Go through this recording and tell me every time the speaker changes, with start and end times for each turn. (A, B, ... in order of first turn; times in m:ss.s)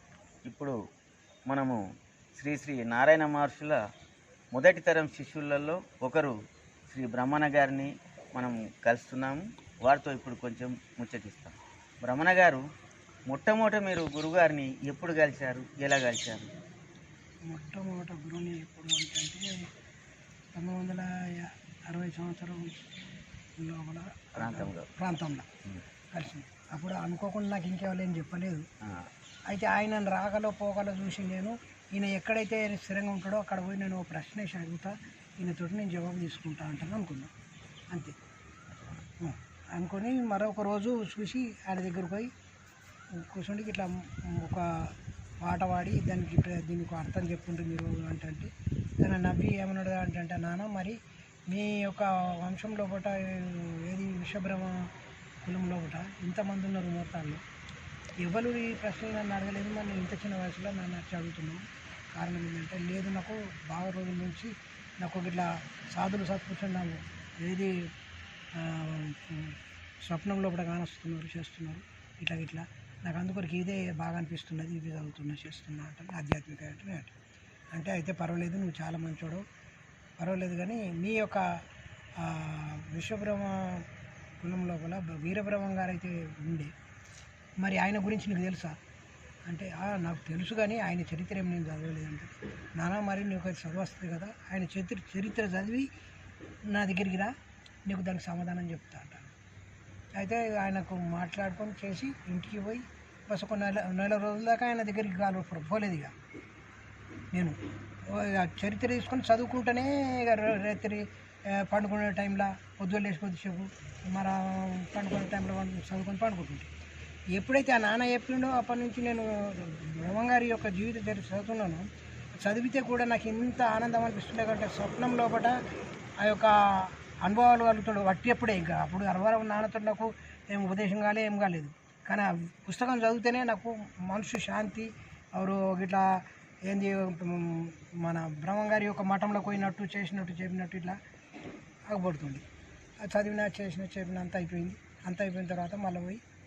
0:00.4-0:00.7 A
0:01.5-0:01.8 A
0:02.4-0:03.8 A
0:04.5-0:06.3 A
0:06.9-0:12.6 A
0:13.3-0:16.5 A
0:17.4-0:19.7 B
0:20.6-0:22.9 B
0:23.6-0:25.5 B
0:24.4-0:24.9 A
0:26.1-0:28.6 B
0:29.5-0:37.3 B
0:38.7-0:39.0 A
0:39.2-0:42.3 B
0:43.2-0:54.9 B
0:55.4-0:57.4 B
0:58.2-1:07.9 B
1:08.5-1:17.1 B
1:17.7-1:19.4 B
1:20.2-1:21.6 B
1:22.2-1:23.8 B
1:24.4-1:26.7 B
1:27.6-1:28.8 B
1:29.5-1:35.9 B
1:36.7-1:37.3 B
1:37.9-1:39.2 B
1:40.2-1:46.1 B
1:47.3-1:56.7 B
1:57.3-2:01.9 B
2:02.4-2:05.6 B
2:06.2-2:21.0 B
2:21.9-2:22.4 B
2:23.0-2:26.2 B